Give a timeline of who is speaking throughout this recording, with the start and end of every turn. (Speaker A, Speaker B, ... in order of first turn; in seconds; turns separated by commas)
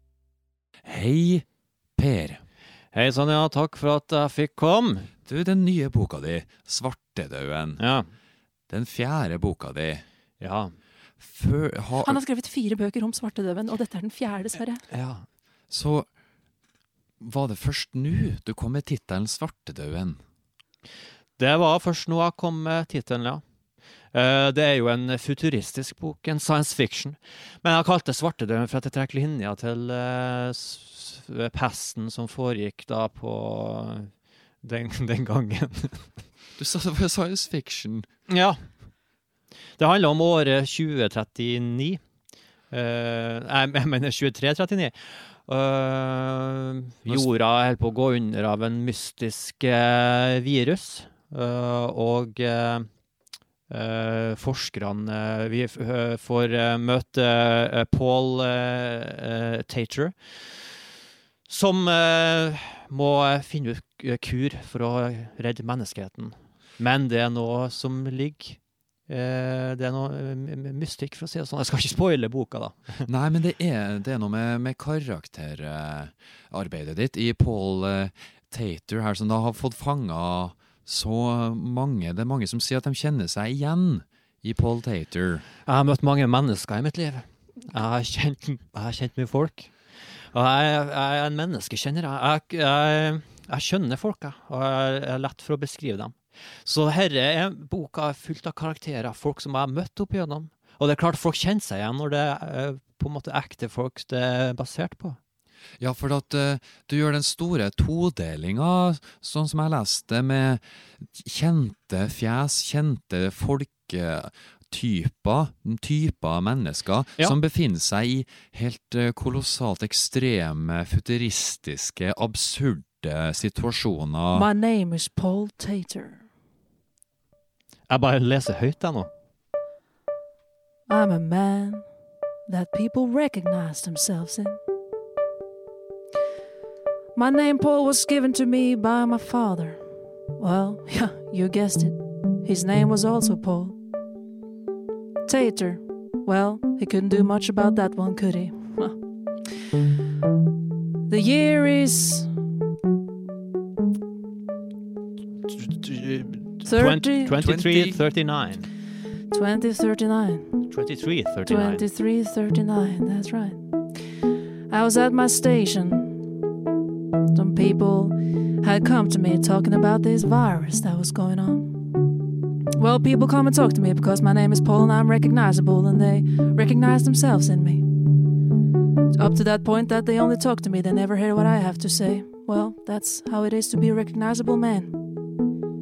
Speaker A: 0.8-1.4, Speaker A: 2.0-2.4, Speaker B: 2.9-5.1, Speaker A: 5.3-7.8, Speaker B: 7.8-8.1, Speaker A: 8.7-10.0, Speaker B: 10.4-10.7, Speaker A: 11.2-12.2, Speaker C: 12.0-14.8, Speaker B: 14.9-15.2, Speaker A: 15.7-16.1, Speaker A: 17.2-20.2, Speaker B: 21.4-23.4, Speaker B: 24.1-34.1, Speaker B: 34.6-36.1, Speaker A: 36.6-38.1, Speaker B: 38.3-38.6, Speaker B: 39.8-42.0, Speaker B: 42.7-52.9, Speaker B: 53.7-60.4, Speaker B: 61.5-73.1, Speaker A: 73.1-85.4, Speaker B: 85.7-89.7, Speaker B: 90.3-105.2, Speaker A: 105.8-124.5, Speaker C: 124.3-126.2, Speaker B: 127.9-129.1, Speaker C: 130.9-131.8, Speaker C: 132.5-134.6, Speaker C: 137.1-139.8, Speaker C: 140.4-143.8, Speaker C: 145.2-149.0, Speaker C: 151.1-152.3, Speaker B: 155.5-158.7, Speaker C: 156.6-157.4, Speaker A: 157.4-158.0, Speaker C: 159.3-160.7, Speaker B: 160.7-161.8, Speaker C: 161.4-163.6, Speaker C: 164.7-166.3, Speaker C: 167.3-172.0, Speaker C: 172.8-177.8, Speaker C: 179.1-184.9